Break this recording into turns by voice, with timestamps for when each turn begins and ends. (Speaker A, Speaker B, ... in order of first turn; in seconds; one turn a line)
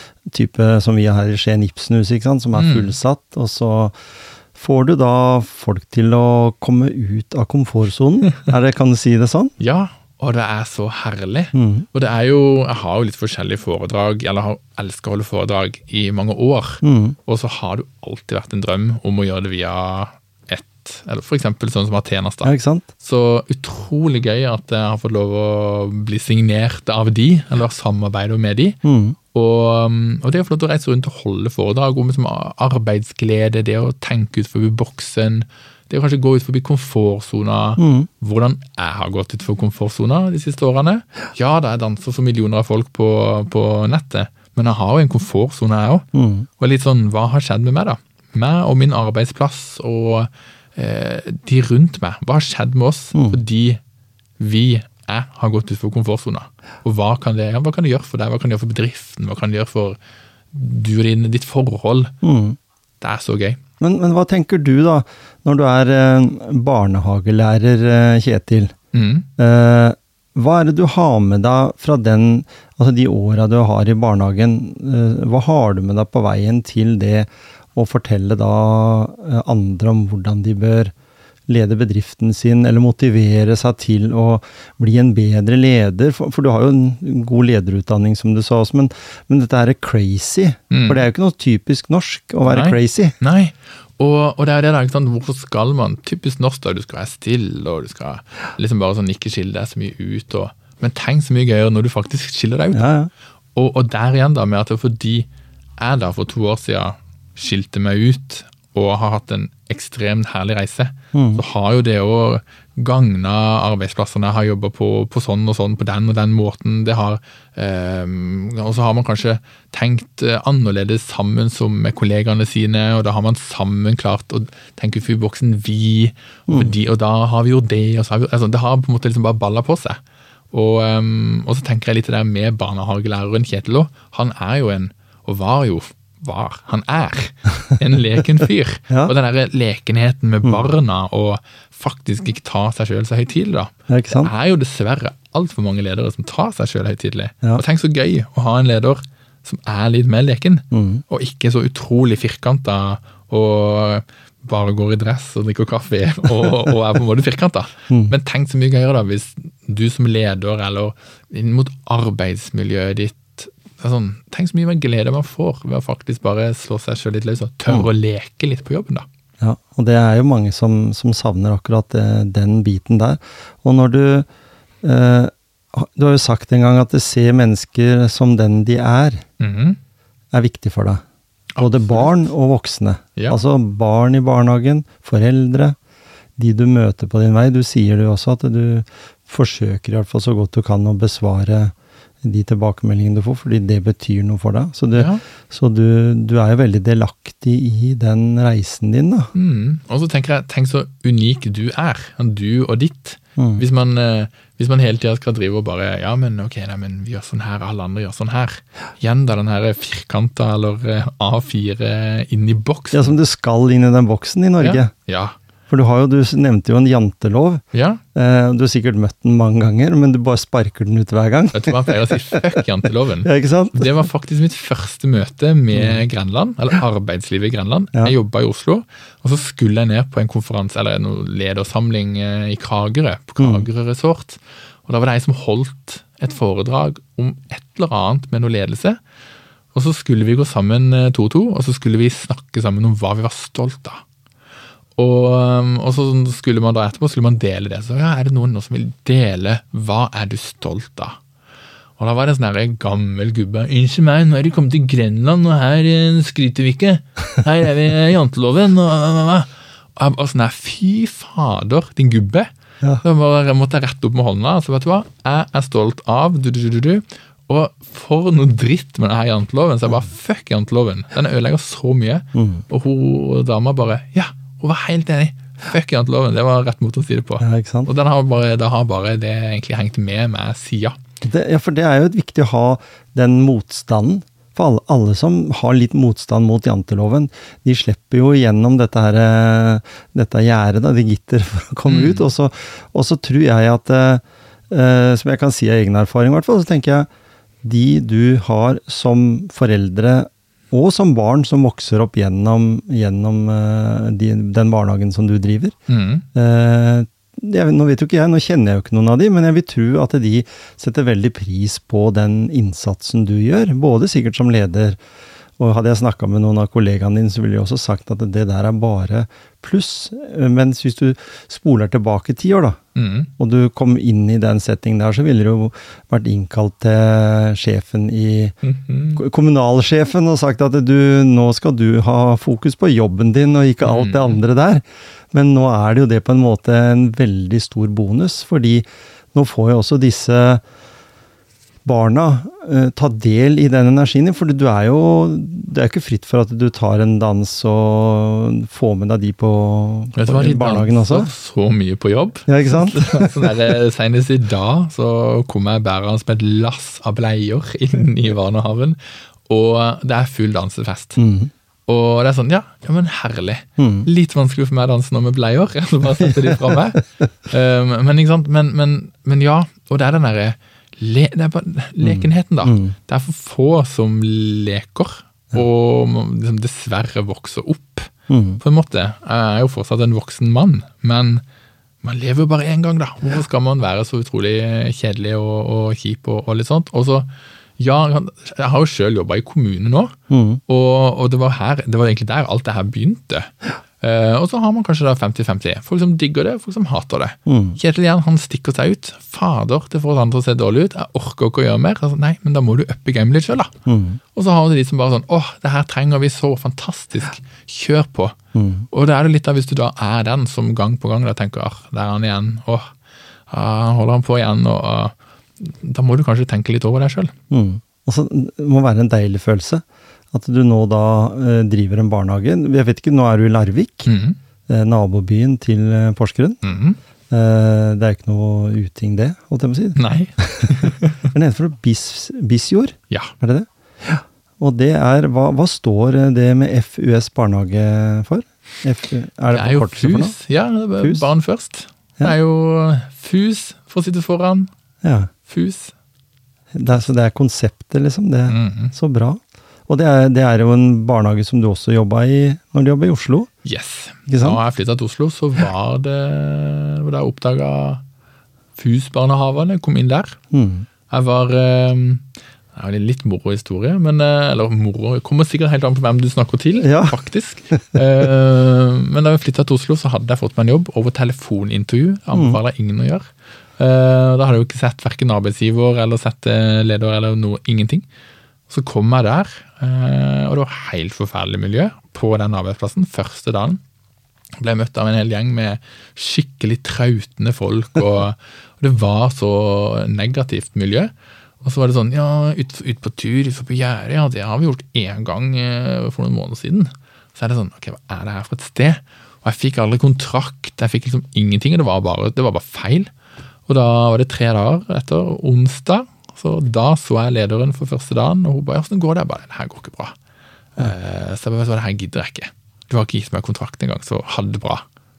Speaker A: 0.3-4.0
Speaker B: 2.5-2.9
Speaker A: 4.5-9.5
Speaker B: 9.6-28.8
Speaker A: 11.5-11.9
Speaker A: 16.8-17.2
Speaker A: 22.4-22.9
Speaker A: 28.8-29.2
Speaker B: 29.3-46.1
Speaker A: 37.8-38.1
Speaker A: 46.1-46.5
Speaker B: 46.6-53.8
Speaker A: 53.1-53.4
Speaker B: 54.4-60.0
Speaker B: 60.5-62.1
Speaker A: 62.2-62.6
Speaker B: 63.0-63.6
Speaker A: 63.8-68.7
Speaker B: 68.9-69.3
Speaker A: 69.4-80.9
Speaker A: 81.5-93.2
Speaker B: 90.7-91.0
Speaker B: 92.5-102.9
Speaker A: 102.7-103.1
Speaker B: 103.6-105.3
Speaker B: 105.8-130.0
Speaker A: 111.1-111.4
Speaker A: 126.5-126.8
Speaker B: 130.5-169.1
Speaker A: 143.9-144.3
Speaker A: 150.7-151.0
Speaker A: 157.9-158.1
Speaker A: 169.4-174.3
Speaker A: 174.8-179.2
Speaker B: 179.4-179.8
Speaker A: 180.3-181.0
Speaker B: 181.6-182.3
Speaker A: 181.6-185.8
Speaker A: 186.4-199.3
Speaker B: 194.9-195.2
Speaker B: 199.3-213.2
Speaker A: 203.4-203.6
Speaker A: 212.9-214.9
Speaker B: 214.6-215.4
Speaker A: 215.7-217.6
Speaker B: 217.7-218.0
Speaker A: 218.2-222.6
Speaker B: 221.5-239.0
Speaker A: 223.2-223.9
Speaker A: 225.7-226.0
Speaker A: 233.4-233.7
Speaker B: 239.7-244.0
Speaker B: 245.0-251.2
Speaker B: 252.0-281.0
Speaker A: 272.3-272.6
Speaker A: 277.4-277.9
Speaker A: 281.2-297.1
Speaker B: 291.9-292.3
Speaker A: 297.6-305.7
Speaker B: 305.9-306.2
Speaker A: 306.4-315.0
Speaker A: 315.6-322.8
Speaker B: 322.9-323.3
Speaker A: 323.4-328.6
Speaker B: 328.6-329.2
Speaker A: 329.2-340.6
Speaker B: 333.8-334.4
Speaker A: 341.9-351.3
Speaker B: 350.1-361.2
Speaker A: 352.5-353.5
Speaker A: 361.2-361.5
Speaker B: 361.9-381.4
Speaker A: 363.8-364.1
Speaker A: 366.2-367.0
Speaker A: 372.0-372.9
Speaker A: 378.3-378.6
Speaker B: 382.0-390.2
Speaker A: 390.3-390.6
Speaker B: 390.7-403.7
Speaker A: 397.5-397.8
Speaker A: 403.9-404.2
Speaker B: 404.3-408.4
Speaker A: 408.6-408.9
Speaker B: 408.9-412.9
Speaker B: 413.5-417.3
Speaker A: 417.5-424.1
Speaker B: 424.1-424.4
Speaker A: 424.7-426.6
Speaker B: 426.6-427.0
Speaker A: 427.3-440.4
Speaker B: 430.0-431.3
Speaker B: 439.5-444.7
Speaker A: 441.0-441.3
Speaker A: 445.0-445.3
Speaker B: 445.5-445.9
Speaker A: 446.7-453.5
Speaker B: 448.5-448.9
Speaker B: 453.6-458.0
Speaker A: 454.3-454.6
Speaker B: 458.8-460.4
Speaker A: 460.5-460.9
Speaker B: 461.1-462.2
Speaker B: 462.8-478.1
Speaker A: 466.8-467.2
Speaker A: 472.3-472.6
Speaker B: 478.7-483.8
Speaker B: 484.6-491.1
Speaker B: 491.6-503.1
Speaker B: 503.7-510.2
Speaker B: 510.8-514.9